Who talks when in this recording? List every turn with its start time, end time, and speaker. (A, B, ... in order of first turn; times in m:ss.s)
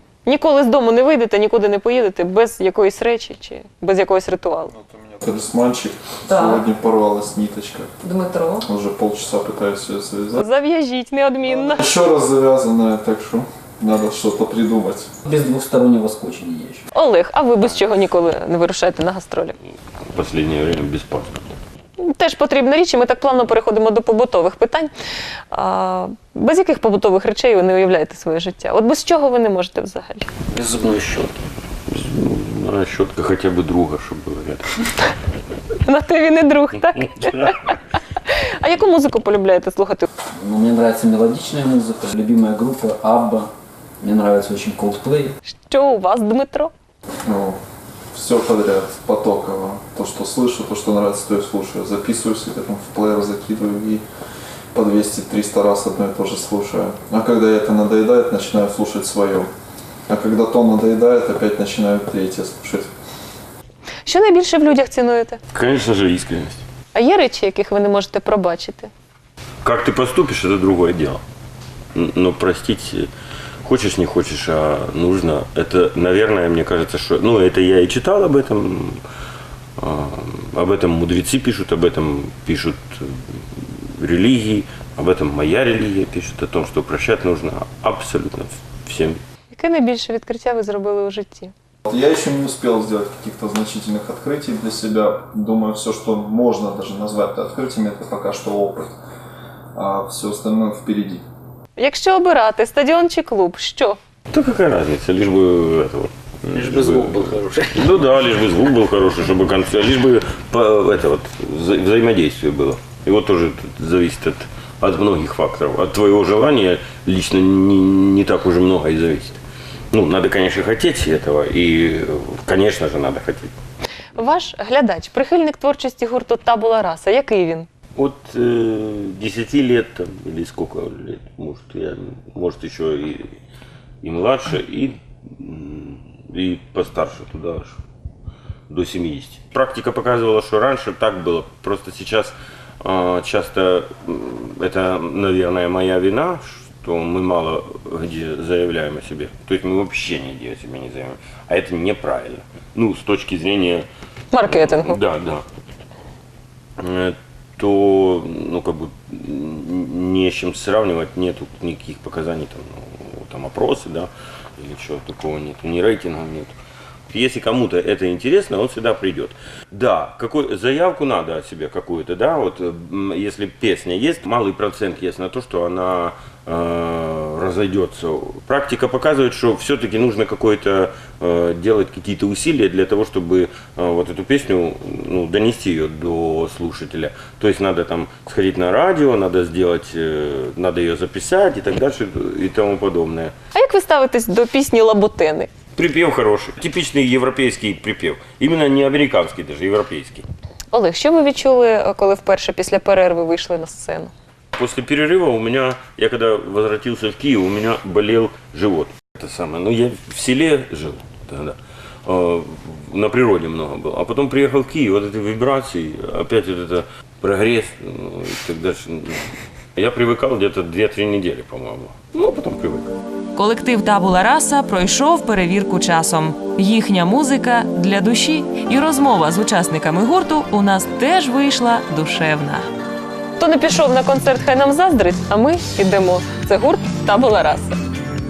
0:00.2-0:04.7 A
0:04.8-0:07.9 B
0:06.3-0:06.6 A
0:08.0-0:08.6 A
0:08.6-0:10.4 B
0:10.4-0:11.9 A
0:11.6-0:15.1 B
0:15.2-0:16.9 C
0:16.9-0:19.6 A
0:20.1-0:21.6 D
0:22.0-0:24.9 A
0:25.5-0:30.3 A
0:30.5-0:31.4 C
0:31.9-0:34.8 D
0:35.8-0:40.1 A
0:37.1-0:37.7 D
0:40.4-0:43.5 C
0:44.0-0:45.4 C
0:45.5-0:46.7 A
0:47.2-0:47.6 B
0:48.1-0:54.0 B
0:54.7-0:59.5 B
1:00.1-1:02.9 B
1:04.0-1:05.4 A
1:05.5-1:06.7 D
1:06.9-1:08.9 A
1:09.6-1:11.2 D
1:12.0-1:13.1 D
1:13.6-1:19.0 D
1:19.8-1:29.2 D
1:29.5-1:31.5 A
1:31.9-1:39.0 B
1:39.8-1:41.2 B
1:41.8-1:44.0 A
1:44.3-2:03.5 D
1:46.5-1:48.0 C
2:04.2-2:07.7 A
2:08.0-2:13.3 D
2:14.0-2:17.8 D
2:18.7-2:33.9 D
2:34.3-2:35.0 A
2:34.4-2:35.4 D
2:36.8-2:46.6 D
2:47.1-3:13.3 D
3:13.5-3:15.5 A
3:15.8-3:20.2 D
3:20.7-3:24.1 A
3:24.6-3:43.0 D
3:43.4-3:52.6 E
3:45.6-3:52.6 A
3:53.4-3:57.8 A